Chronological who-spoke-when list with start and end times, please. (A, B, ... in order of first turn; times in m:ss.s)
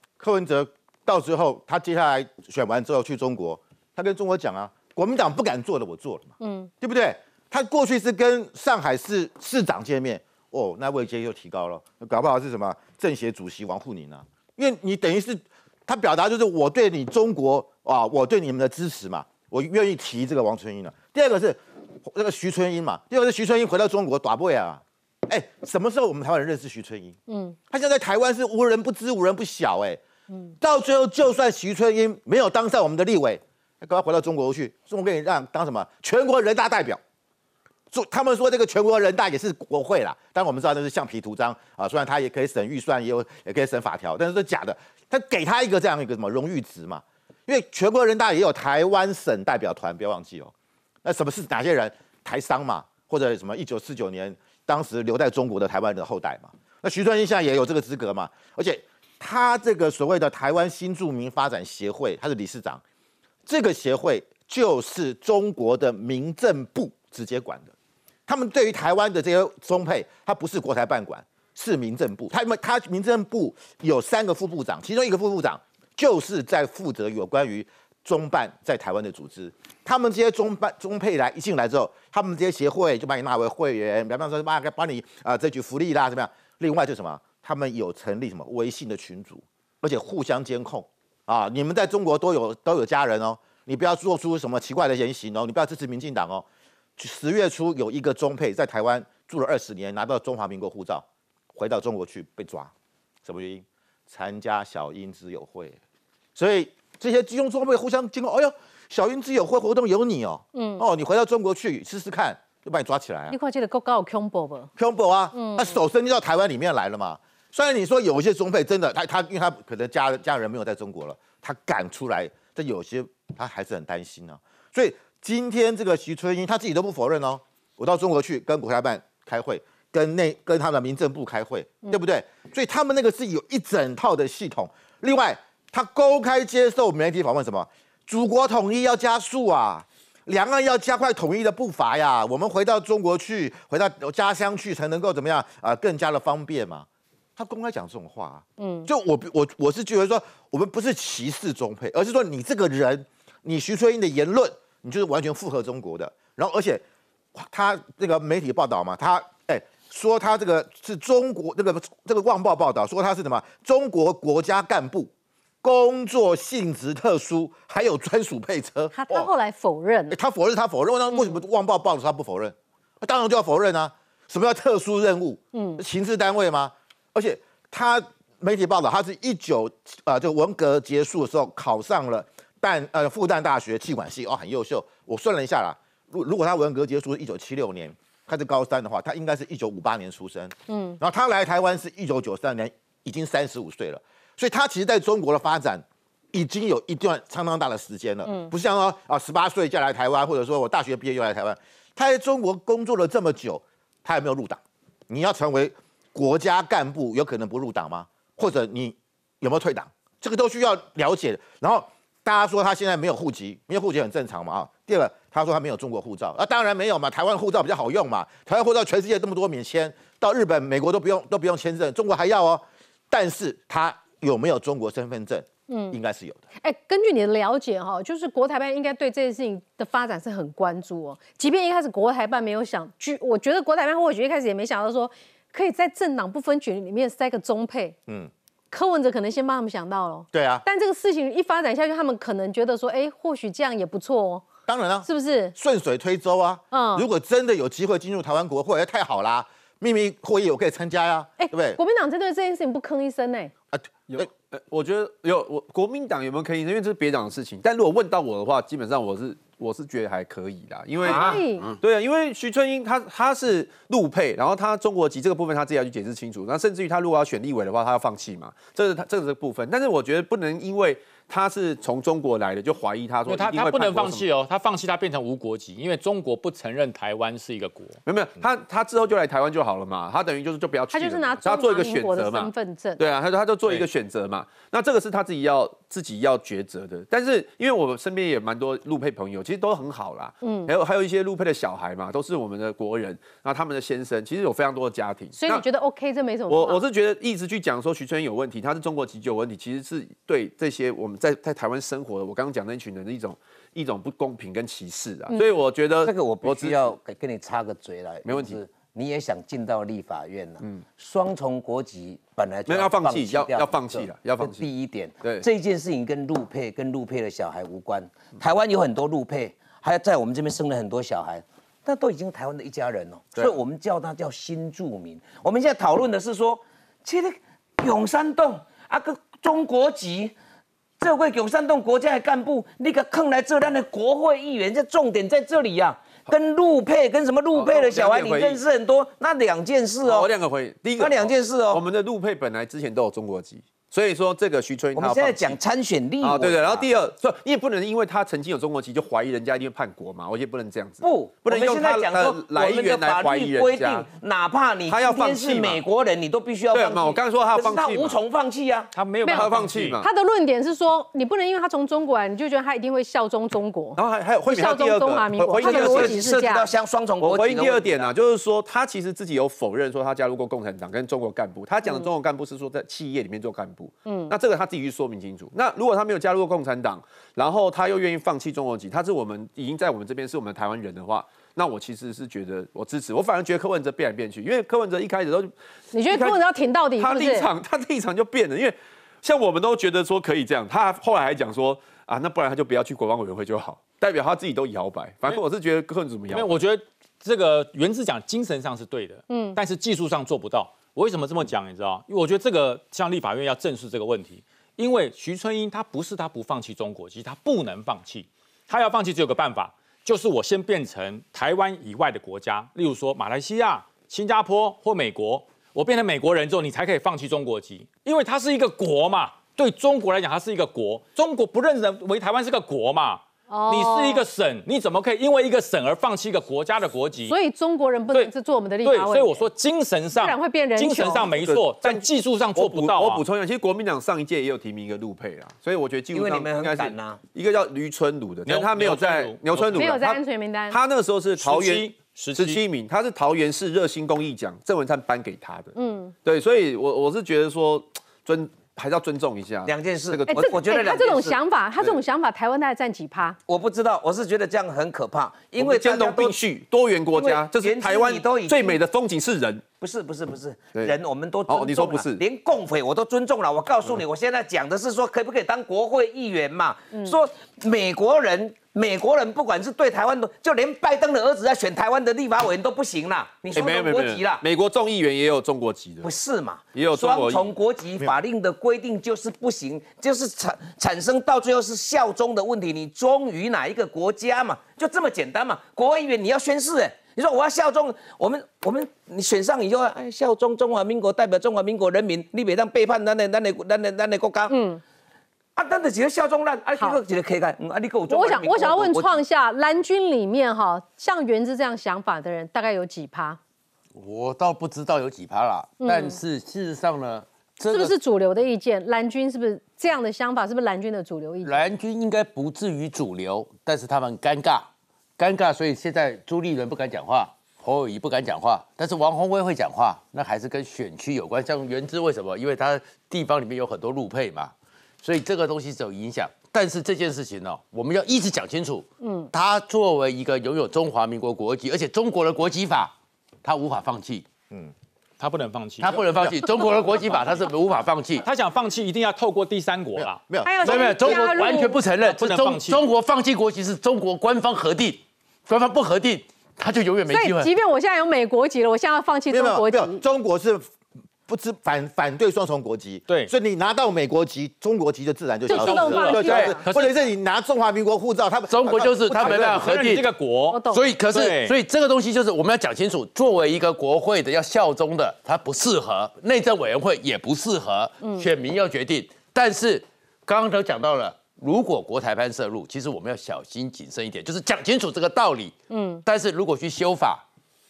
0:00.2-0:27.2 A
0:06.4-0:06.7 B
0:27.3-0:27.6 B
0:27.7-0:30.0 A
0:30.6-0:37.0 A
0:37.9-0:50.5 A
0:51.0-1:02.8 A
1:03.4-1:07.7 A
1:08.3-1:36.4 A
1:37.0-1:42.7 A
1:43.2-1:45.8 A
1:46.4-1:53.4 A
1:50.5-1:50.8 B
1:53.3-1:54.7 B
1:54.8-2:26.8 A
1:55.3-1:55.7 B
2:27.4-2:36.8 A
2:28.6-2:28.9 B
2:37.3-2:45.1 A
2:45.6-2:49.3 A
2:48.9-2:50.2 B
2:50.1-3:46.4 A
2:51.1-2:51.4 B
2:55.5-2:55.8 B
3:10.7-3:11.0 B
3:18.2-3:18.5 B
3:45.7-3:46.0 B
3:46.6-3:58.0 B
3:58.7-4:04.5 B
4:00.3-4:00.6 A
4:04.7-4:11.8 A
4:05.0-4:05.5 B
4:06.7-4:07.1 B
4:11.4-4:13.5 B
4:13.7-4:14.2 A
4:14.1-4:34.2 C
4:21.0-4:21.6 B
4:33.3-4:38.0 D
4:38.0-4:55.6 C
4:40.9-4:43.0 B
4:50.4-4:50.7 B
4:55.3-4:56.8 B
4:56.5-5:06.9 C
5:06.0-5:30.3 E
5:08.2-5:08.6 C
5:12.7-5:14.7 C
5:15.2-5:15.4 C
5:31.0-5:40.3 E
5:37.5-5:38.6 C
5:40.0-5:45.6 C
5:41.0-5:41.8 E
5:44.9-5:46.9 E
5:46.2-5:54.1 C
5:51.0-5:58.9 E
5:54.9-5:55.8 C
5:56.7-5:58.2 C
5:58.9-6:00.0 D
5:59.2-6:06.6 B
5:59.3-6:00.1 C
6:04.0-6:06.3 C
6:05.5-6:08.1 E
6:07.2-6:25.5 C
6:14.0-6:14.3 B
6:25.9-6:27.5 B
6:26.1-6:26.4 C
6:27.0-6:36.5 C
6:36.3-7:07.3 D
6:39.3-6:39.6 B
7:03.5-7:04.2 B
7:07.2-7:09.5 B
7:08.8-7:13.2 D
7:10.1-7:11.3 B
7:11.2-7:25.7 C
7:16.1-7:17.2 E
7:18.4-7:19.9 D
7:19.7-7:20.8 B
7:21.4-7:22.6 D
7:25.7-7:26.1 B
7:26.2-7:30.8 C
7:29.6-7:31.3 E
7:30.3-7:33.4 B
7:33.5-7:36.4 E
7:35.6-7:39.6 C
7:37.1-7:38.8 E
7:39.8-7:54.4 E
7:41.5-7:42.2 C
7:53.5-7:56.1 C
7:56.0-8:14.5 E
7:56.7-7:57.5 C
8:14.5-8:14.8 B
8:15.6-8:19.2 E
8:18.1-8:23.4 B
8:23.9-8:27.9 F
8:25.8-8:26.2 B
8:27.7-8:31.6 B
8:31.4-8:52.9 F
8:49.0-8:49.3 B
8:53.4-8:54.2 F
8:55.2-8:56.6 D
8:55.8-8:58.2 F
8:58.2-9:00.2 D
9:00.0-9:01.0 A
9:00.4-9:01.8 B
9:00.6-9:07.5 F
9:02.0-9:02.8 D
9:07.1-9:10.0 B
9:09.3-9:10.7 A
9:11.3-9:19.7 A
9:15.5-9:16.7 B
9:15.5-9:16.9 D
9:18.5-9:20.1 F
9:19.1-9:21.5 D
9:20.5-9:20.9 B
9:20.6-9:37.2 F
9:28.0-9:28.3 B
9:35.7-9:36.0 B